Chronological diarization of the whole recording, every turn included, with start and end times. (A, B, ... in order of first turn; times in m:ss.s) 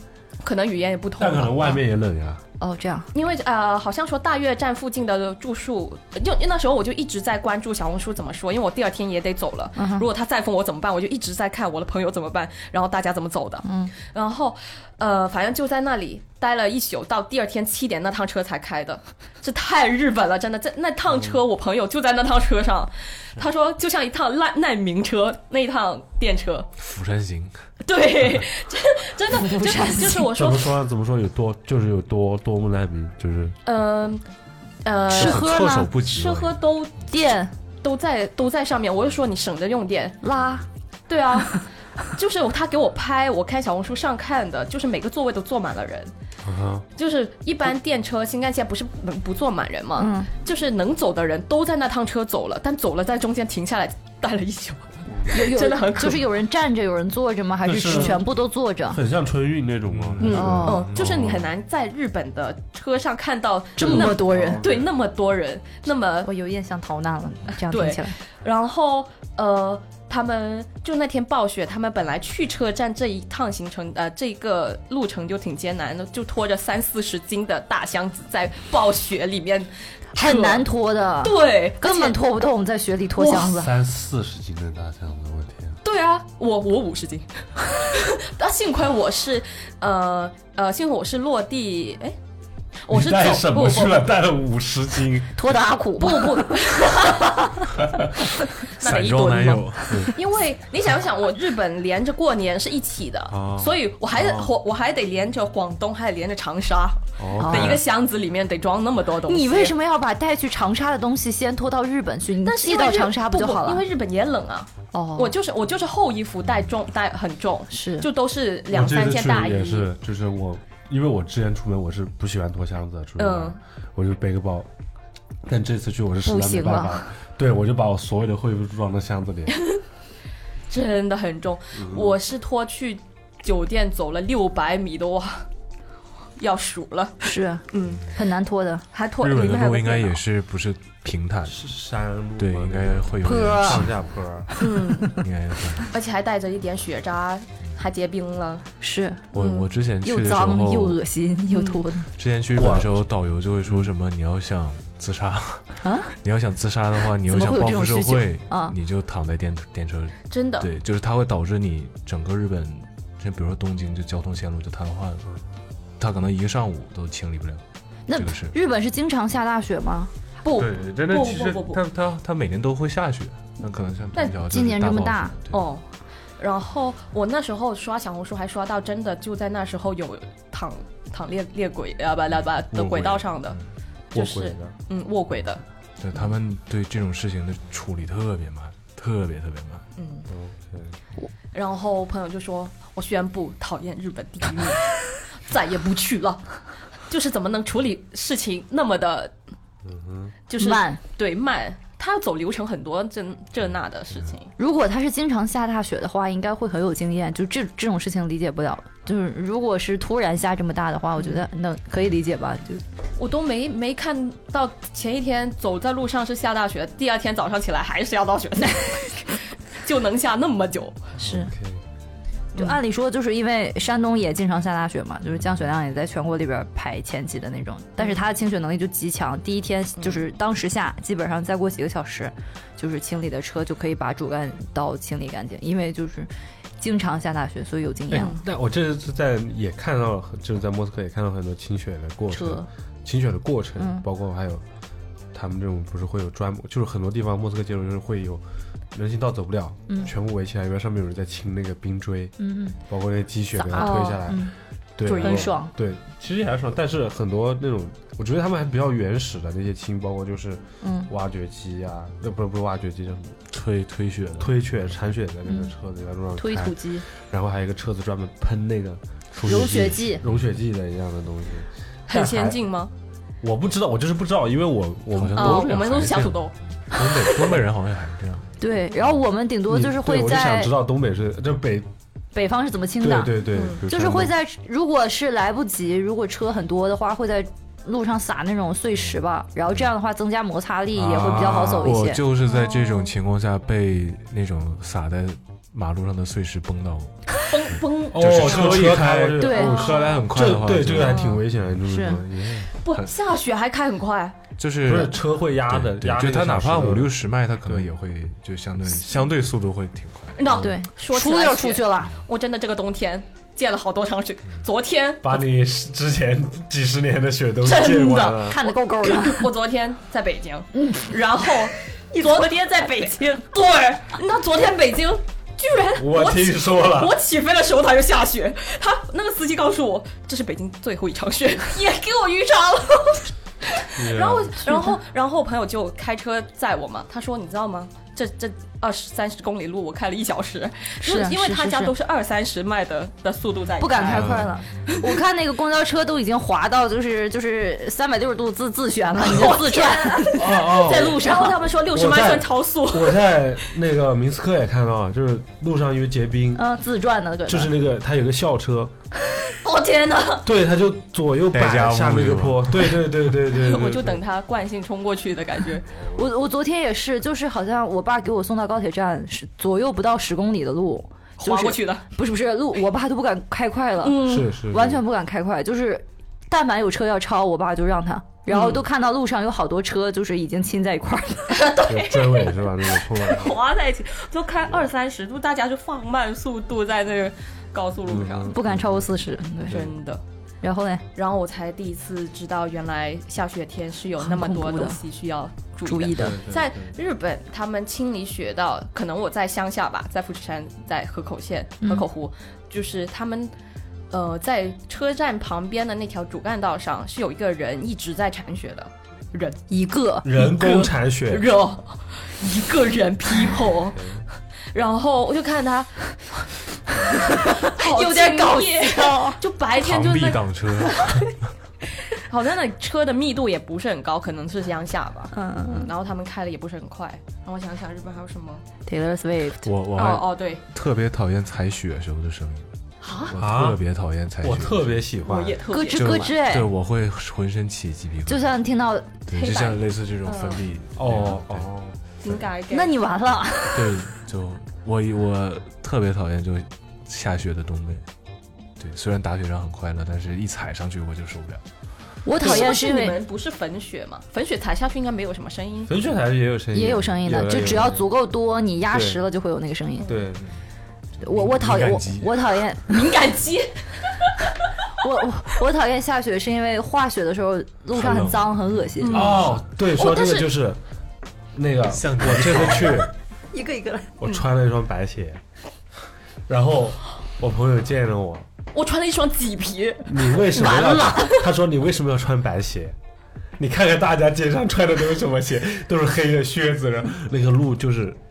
0:00.4-0:01.8 A
0:01.2-0:02.4 B
0:02.6-0:03.1 C
0:03.1-0:26.7 A
0:09.8-0:10.1 C
0:13.6-0:13.9 C
0:26.8-0:27.6 D
0:27.8-0:30.8 A
0:29.3-0:30.3 C
0:30.3-0:33.6 B
0:33.7-0:34.2 A
0:34.8-0:37.2 A
0:35.1-0:35.9 C
0:35.1-0:36.6 D
0:37.1-0:37.5 C
0:37.8-0:40.2 A
0:40.2-0:40.6 C
0:41.1-0:46.1 A
0:46.4-0:46.8 B
0:47.0-0:56.3 A
0:50.0-0:50.3 C
0:55.3-0:59.0 C
0:57.6-0:58.2 B
0:57.8-0:58.2 A
0:58.9-1:01.0 B
0:59.9-1:01.5 D
1:00.2-1:06.3 A
1:00.3-1:00.9 C
1:03.8-1:04.6 C
1:03.8-1:04.8 B
1:06.2-1:08.2 C
1:07.6-1:20.6 A
1:20.2-1:23.7 C
1:21.2-1:22.2 A
1:23.2-1:23.6 A
1:23.4-1:25.8 B
1:25.8-1:32.2 A
1:32.9-1:34.1 A
1:32.9-1:35.5 B
1:35.4-1:37.5 C
1:36.0-1:37.5 A
1:38.6-1:49.7 A
1:38.8-1:40.0 D
1:39.9-1:40.1 B
1:43.3-1:44.5 B
1:47.2-1:47.8 B
1:47.4-1:47.8 C
1:49.3-1:53.8 C
1:52.4-1:59.9 A
1:54.9-1:55.3 C
1:57.7-1:58.1 C
1:58.7-2:04.7 B
2:03.2-2:03.6 A
2:05.5-2:09.6 B
2:06.3-2:07.0 C
2:10.7-2:15.5 A
2:11.8-2:12.2 B
2:16.4-2:18.1 A
2:17.2-2:18.8 C
2:18.9-2:20.2 A
2:19.2-2:21.6 D
2:21.5-2:24.5 B
2:22.4-2:24.0 D
2:23.2-2:23.8 C
2:24.6-2:25.2 A
2:25.2-2:25.9 D
2:25.9-2:28.7 A
2:28.8-2:29.2 C
2:29.3-2:31.0 D
2:29.3-2:29.7 A
2:30.0-2:32.1 C
2:31.5-2:31.8 A
2:32.2-2:45.3 D
2:32.5-2:32.9 B
2:33.6-2:33.9 B
2:35.8-2:36.1 C
2:37.3-2:38.8 C
2:40.3-2:40.7 A
2:46.0-2:48.5 D
2:48.1-2:50.1 C
2:50.4-2:51.8 A
2:50.5-2:51.7 B
2:51.5-2:55.6 D
2:54.1-2:54.4 A
2:54.5-2:55.4 C
2:55.5-2:55.8 A
2:56.4-3:03.6 A
3:02.7-3:03.6 D
3:04.1-3:04.8 B
3:04.1-3:05.6 A
3:06.0-3:09.8 D
3:10.0-3:10.3 A
3:10.3-3:10.9 B
3:11.5-3:16.4 A
3:17.1-3:19.3 A
3:19.8-3:20.3 B
3:20.5-3:24.5 A
3:20.6-3:21.0 C
3:24.6-3:32.8 C
3:33.2-3:41.1 A
3:41.2-3:41.5 C
3:41.2-3:41.8 B
3:42.6-3:58.4 C
3:58.1-4:04.6 B
3:58.1-3:58.4 A
4:02.3-4:02.7 C
4:03.8-4:04.0 C
4:05.3-4:08.4 B
4:08.9-4:12.3 B
4:12.4-4:12.8 C
4:12.9-4:23.4 B
4:13.6-4:14.5 C
4:13.8-4:14.4 A
4:15.0-4:15.5 A
4:15.1-4:15.7 C
4:20.8-4:21.1 C
4:23.5-4:24.5 D
4:24.4-4:32.6 B
4:25.5-4:25.7 C
4:26.4-4:27.0 C
4:29.4-4:30.2 C
4:29.5-4:30.4 D
4:32.1-4:32.9 A
4:33.4-4:36.2 B
4:35.1-4:39.1 D
4:35.4-4:36.6 A
4:37.0-4:37.6 B
4:38.6-4:40.7 C
4:39.7-4:41.9 B
4:42.3-4:52.2 C
4:43.0-4:44.3 B
4:43.5-4:43.8 A
4:51.0-5:01.3 D
4:51.0-4:51.9 B
4:52.5-4:53.1 A
4:57.5-4:58.9 A
4:58.1-5:02.8 B
4:59.4-5:00.0 C
4:59.6-5:00.0 A
5:01.0-5:01.4 A
5:01.9-5:02.2 C
5:02.8-5:04.4 A
5:04.6-5:10.7 D
5:04.8-5:07.9 B
5:10.4-5:15.4 A
5:10.6-5:12.2 C
5:15.2-5:18.6 B
5:17.6-5:44.4 A
5:18.4-5:19.5 C
5:20.8-5:21.0 C
5:26.0-5:27.2 B
5:34.0-5:34.6 B
5:34.7-5:34.9 C
5:41.0-5:41.9 C
5:43.8-5:51.6 C
5:44.1-5:44.5 B
5:49.2-5:53.4 A
5:50.3-5:51.3 B
5:51.9-5:56.6 B
5:56.6-5:57.7 C
5:57.5-5:58.9 B
5:59.4-6:00.5 A
6:00.4-6:04.2 B
6:01.5-6:03.0 D
6:03.5-6:05.9 A
6:06.2-6:21.7 C
6:11.4-6:12.0 A
6:14.0-6:14.5 A
6:14.2-6:15.0 B
6:18.5-6:18.8 A
6:21.5-6:28.6 A
6:21.9-6:23.6 B
6:28.1-6:29.0 B
6:28.5-6:29.8 C
6:29.7-6:30.2 A
6:30.6-6:31.0 C
6:31.2-6:43.5 A
6:34.2-6:35.0 C
6:35.8-6:36.4 C
6:36.2-6:36.9 B
6:44.1-6:49.6 A
6:49.7-6:50.6 C
6:50.2-6:51.5 B
6:50.4-6:54.1 A
6:53.9-6:54.2 B
6:54.7-6:56.5 A
6:57.1-7:01.1 A
6:57.1-6:59.4 C
6:59.8-7:01.4 D
7:02.1-7:08.6 A
7:05.3-7:05.9 C
7:08.9-7:09.7 C
7:09.6-7:15.0 D
7:10.0-7:10.6 A
7:13.0-7:13.4 A
7:13.4-7:13.8 B
7:14.4-7:15.6 B
7:15.2-7:16.3 A
7:15.7-7:16.7 C
7:15.9-7:18.5 D
7:18.3-7:19.1 C
7:19.3-7:21.7 D
7:19.3-7:20.6 A
7:21.0-7:22.0 B
7:22.2-7:22.9 A
7:22.7-7:24.0 C
7:23.7-7:28.1 D
7:28.8-7:31.6 D
7:32.2-7:33.2 C
7:32.4-7:36.0 A
7:35.9-7:38.1 B
7:36.7-7:40.2 C
7:38.9-7:39.2 B
7:40.0-7:40.3 A
7:40.1-7:40.4 B
7:41.2-7:42.4 D
7:41.2-7:43.1 C
7:42.9-7:44.4 A
7:45.0-7:49.4 C
7:47.9-7:49.6 D
7:49.0-7:50.5 A
7:49.1-7:50.8 B
7:51.6-7:53.1 B
7:51.9-7:53.1 D
7:53.5-7:54.2 C
7:54.2-7:55.4 B
7:56.5-7:58.5 B
7:58.7-8:01.5 A
8:00.0-8:03.0 B
8:03.6-8:08.2 B